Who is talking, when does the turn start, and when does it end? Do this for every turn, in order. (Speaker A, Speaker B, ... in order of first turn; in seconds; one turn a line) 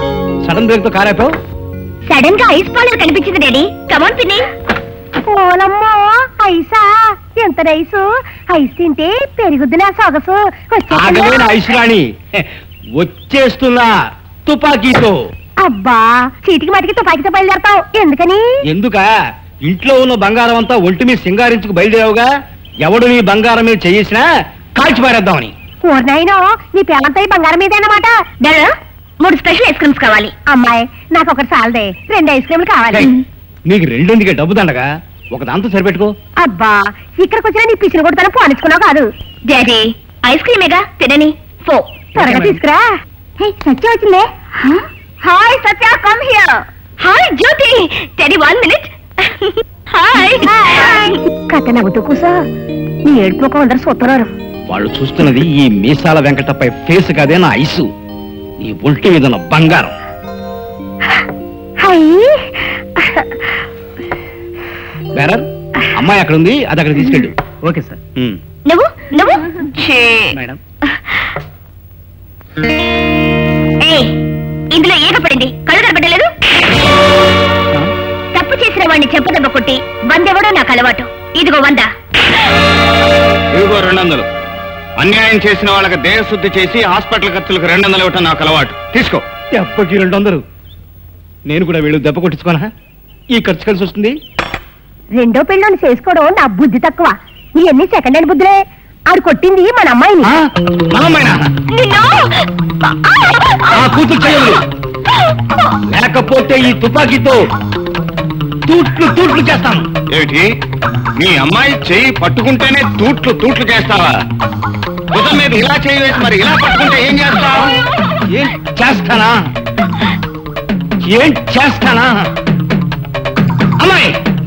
Speaker A: 0.4-1.4
Speaker B: 2.1-4.5
Speaker C: 5.3-11.5
Speaker A: 10.9-13.9
Speaker A: 14.5-15.2
Speaker C: 15.6-18.4
Speaker A: 18.7-19.1
Speaker A: 19.6-22.3
Speaker A: 22.8-25.5
Speaker C: 25.9-28.2
Speaker B: 28.4-30.3
Speaker C: 30.5-33.1
Speaker A: 33.7-36.1
Speaker C: 36.4-39.1
Speaker B: 39.5-42.0
Speaker C: 42.2-42.9
Speaker A: 42.2-42.6
Speaker B: 43.4-44.3
Speaker C: 45.2-46.5
Speaker B: 47.0-51.2
Speaker C: 50.2-52.4
Speaker C: 53.0-54.3
Speaker A: 54.7-57.9
Speaker A: 58.6-60.0
Speaker C: 61.8-63.3
Speaker A: 65.1-68.4
Speaker B: 68.7-70.3
Speaker B: 73.8-74.1
Speaker B: 74.7-76.3
Speaker B: 78.3-81.9
Speaker D: 83.5-84.3
Speaker D: 85.0-89.2
Speaker A: 89.5-90.4
Speaker A: 91.5-92.7
Speaker A: 93.3-94.2
Speaker C: 95.2-98.5
Speaker C: 99.1-100.3
Speaker A: 100.2-101.4
Speaker B: 101.7-104.6
Speaker A: 103.7-104.6
Speaker A: 105.9-107.4
Speaker A: 108.7-109.8
Speaker D: 110.1-110.5
Speaker D: 111.2-114.2
Speaker D: 115.1-117.8
Speaker A: 118.3-119.3
Speaker A: 121.1-122.2
Speaker A: 123.8-124.2